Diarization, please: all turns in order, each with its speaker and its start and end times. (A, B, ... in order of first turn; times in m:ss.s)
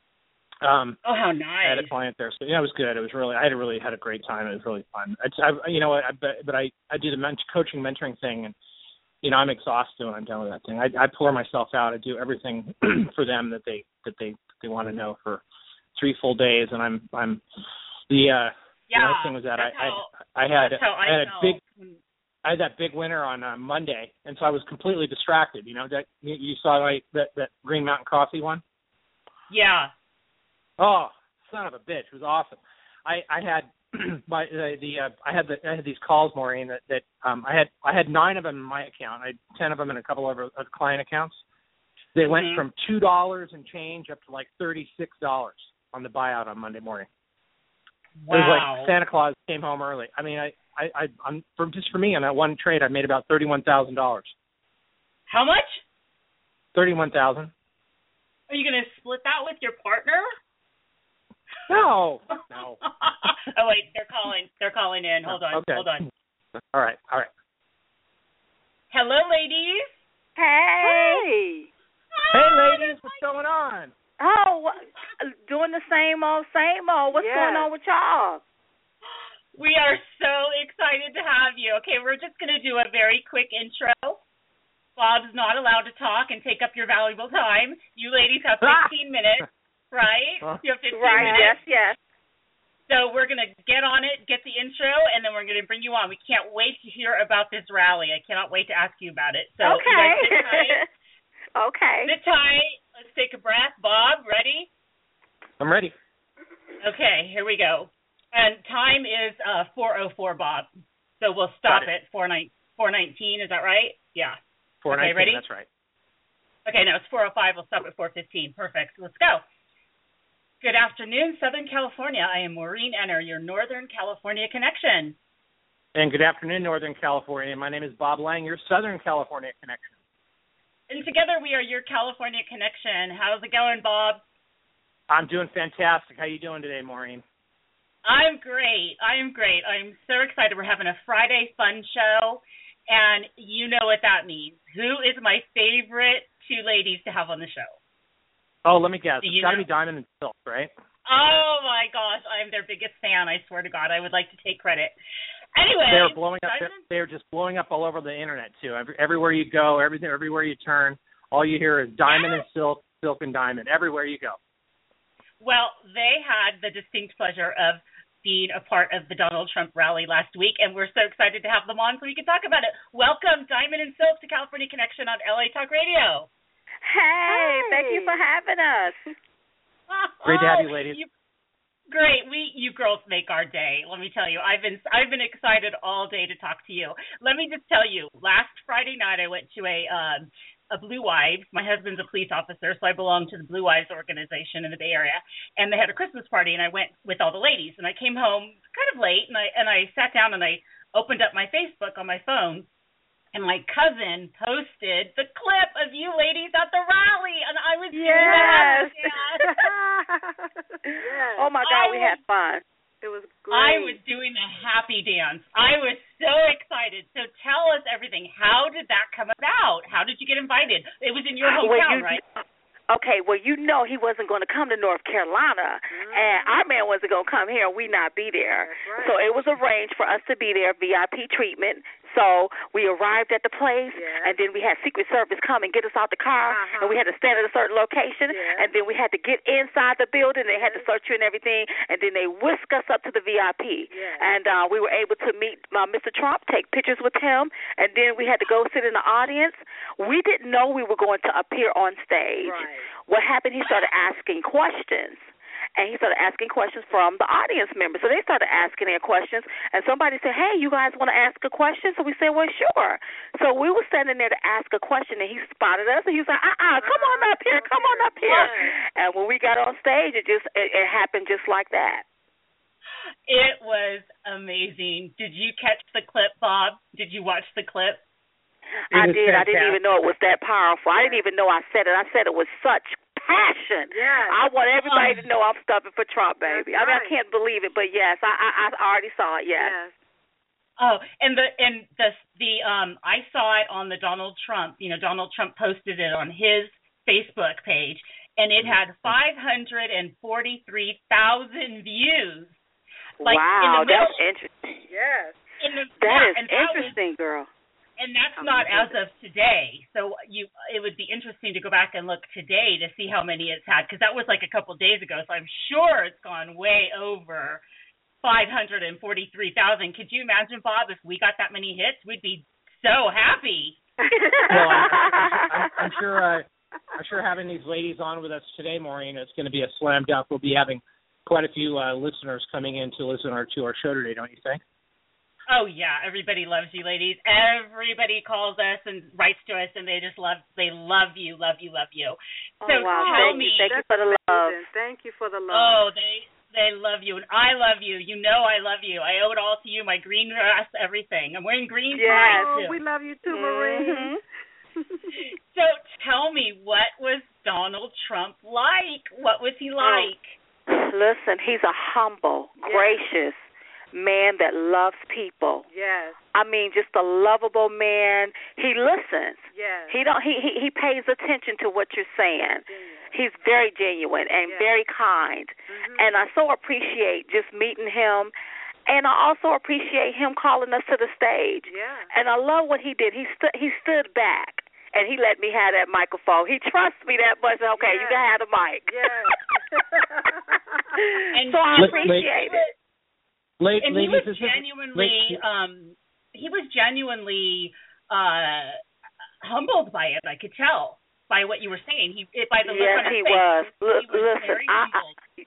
0:00.6-0:01.0 A
0:01.0-0:01.9 B
0:01.6-0:08.5 A
0:09.2-0:15.4 A
0:15.9-0:17.4 A
0:18.1-0:21.6 A
0:18.9-0:22.0 B
0:22.4-0:28.6 A
0:29.5-0:29.9 B
0:30.8-0:41.4 A
0:42.1-0:47.1 A
0:42.2-0:42.6 B
0:48.2-0:48.9 B
0:48.3-0:54.3 A
0:55.3-0:55.8 B
0:56.7-0:57.5 A
0:58.5-1:00.3 B
1:01.7-1:02.8 A
1:02.4-1:06.1 B
1:05.2-1:05.9 A
1:06.7-1:07.3 A
1:08.9-1:10.0 B
1:10.4-1:11.2 C
1:10.8-1:11.7 D
1:12.1-1:13.2 B
1:12.3-1:13.9 A
1:14.2-1:18.4 C
1:17.1-1:17.7 D
1:19.5-1:24.2 B
1:25.0-1:31.6 B
1:28.6-1:28.9 A
1:30.9-1:32.0 C
1:31.2-1:31.5 A
1:32.9-1:40.8 B
1:39.6-1:40.8 C
1:41.5-1:42.1 C
1:42.0-1:44.7 B
1:45.6-1:45.9 A
1:46.8-1:55.4 B
1:51.6-1:51.9 A
1:54.8-1:55.7 A
1:56.6-1:59.4 B
2:00.6-2:05.2 B
2:05.9-2:10.0 A
2:10.9-2:14.2 B
2:15.1-2:17.2 A
2:18.0-2:27.7 B
2:28.6-2:30.7 A
2:29.2-2:29.7 B
2:31.0-2:34.9 B
2:35.6-2:36.8 B
2:35.9-2:44.4 A
2:42.1-2:42.4 B
2:45.4-2:56.3 B
2:56.8-2:59.1 C
2:57.3-2:58.2 D
2:59.9-3:01.1 B
3:00.2-3:01.0 A
3:01.9-3:22.7 B
3:23.3-3:29.5 B
3:27.9-3:31.5 D
3:28.2-3:28.9 C
3:31.3-3:32.6 C
3:31.6-3:32.2 B
3:33.0-3:34.0 D
3:33.5-3:42.2 B
3:41.4-4:32.0 C
3:45.9-3:46.6 D
3:48.6-3:49.5 D
3:53.9-3:54.4 D
3:56.5-3:57.0 D
3:58.3-3:58.7 D
4:00.5-4:00.9 D
4:03.9-4:04.3 D
4:12.4-4:12.9 D
4:26.8-4:28.8 D
4:28.2-4:28.6 B
4:33.3-4:38.0 B
4:38.9-4:49.8 C
4:38.9-4:39.8 A
4:43.9-4:44.4 D
4:44.8-4:45.3 B
4:46.4-4:47.1 D
4:49.6-4:49.9 D
4:50.8-5:02.6 B
4:58.6-4:59.2 A
5:03.2-5:04.8 C
5:03.2-5:04.2 B
5:04.9-5:05.4 D
5:05.6-5:07.0 B
5:06.0-5:07.5 C
5:08.0-5:17.6 B
5:08.4-5:09.0 D
5:18.2-5:23.8 B
5:24.0-5:25.6 D
5:24.5-5:34.6 A
5:35.5-5:43.7 B
5:42.6-5:44.6 C
5:42.8-5:45.8 D
5:45.5-5:52.8 B
5:51.9-5:54.1 D
5:52.2-5:52.5 C
5:53.3-5:54.2 C
5:54.8-5:55.3 D
5:55.1-6:00.4 B
5:59.8-6:00.1 D
6:00.7-6:05.6 C
6:02.6-6:03.0 D
6:05.7-6:06.2 D
6:06.3-6:18.3 C
6:09.5-6:10.0 D
6:12.6-6:13.2 D
6:14.4-6:14.7 D
6:15.7-6:16.1 D
6:18.9-6:29.6 C
6:21.6-6:22.1 D
6:27.8-6:28.3 D
6:28.8-6:30.9 D
6:31.0-6:32.6 C
6:31.3-6:32.7 B
6:31.8-6:32.3 A
6:33.6-6:35.4 A
6:33.8-6:38.8 B
6:39.4-6:45.2 B
6:42.6-6:45.0 C